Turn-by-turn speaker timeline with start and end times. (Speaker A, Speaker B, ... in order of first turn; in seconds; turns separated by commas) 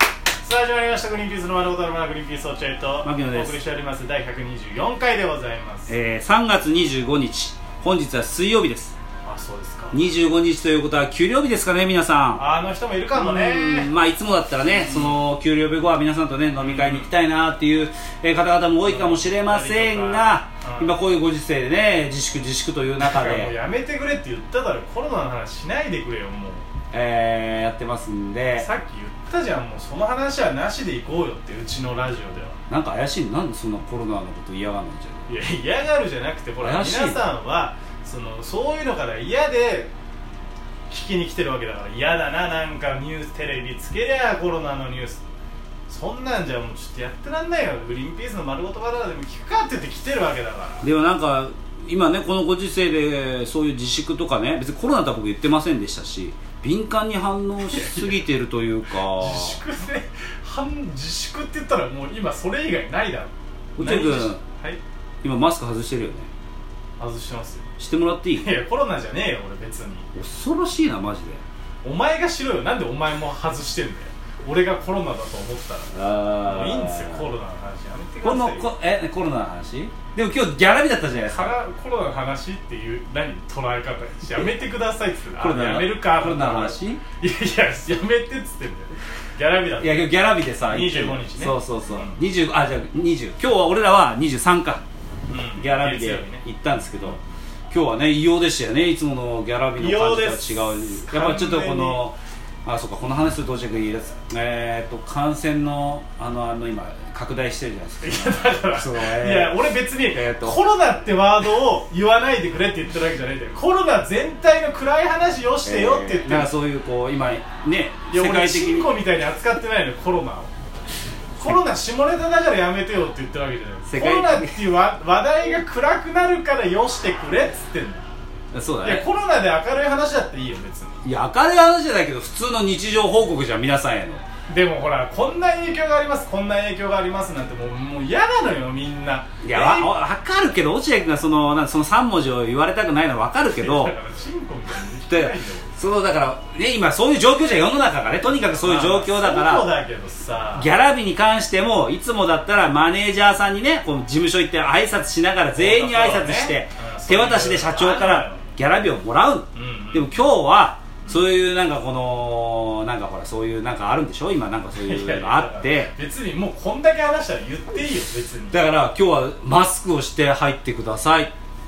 Speaker A: 0.4-5.9, Speaker B: 3.0-3.6, Speaker B: 5.9-8.9, Speaker A: 9.2-10.0, Speaker B: 9.9-12.4, Speaker A: 12.4-13.9, Speaker B: 13.1-23.5, Speaker A: 14.7-15.2, Speaker A: 16.6-17.1, Speaker A: 18.8-21.0, Speaker A: 23.0-26.7, Speaker B: 26.9-28.7, Speaker A: 28.6-32.6, Speaker B: 32.7-35.3, Speaker A: 35.3-39.9, Speaker B: 36.6-37.2, Speaker A: 40.9-45.2, Speaker A: 45.9-50.9, Speaker B: 50.8-59.6, Speaker A: 57.6-58.3, Speaker A: 59.0-64.8, Speaker B: 63.8-64.4, Speaker B: 65.2-66.3, Speaker A: 67.0-67.7, Speaker B: 67.8-68.5, Speaker A: 68.4-70.1, Speaker B: 70.1-71.4, Speaker A: 71.8-78.7, Speaker B: 75.9-77.3, Speaker B: 78.2-81.6, Speaker A: 81.3-90.1, Speaker B: 85.4-87.0, Speaker B: 89.8-94.8, Speaker A: 90.6-92.2, Speaker A: 95.3-97.2, Speaker B: 95.6-97.2, Speaker B: 97.7-110.6, Speaker A: 99.8-102.0, Speaker A: 108.0-116.5, Speaker B: 115.6-119.0, Speaker A: 118.1-120.5, Speaker A: 121.4-128.1, Speaker B: 123.9-124.7, Speaker B: 128.5-129.1, Speaker A: 128.8-131.0, Speaker B: 131.0-134.2, Speaker A: 134.5-139.9, Speaker B: 139.4-143.9, Speaker A: 143.5-145.7, Speaker B: 145.1-149.7, Speaker A: 148.6-150.7, Speaker B: 150.5-165.9, Speaker A: 155.5-158.5, Speaker A: 159.5-160.2, Speaker A: 164.7-168.6, Speaker B: 168.5-171.3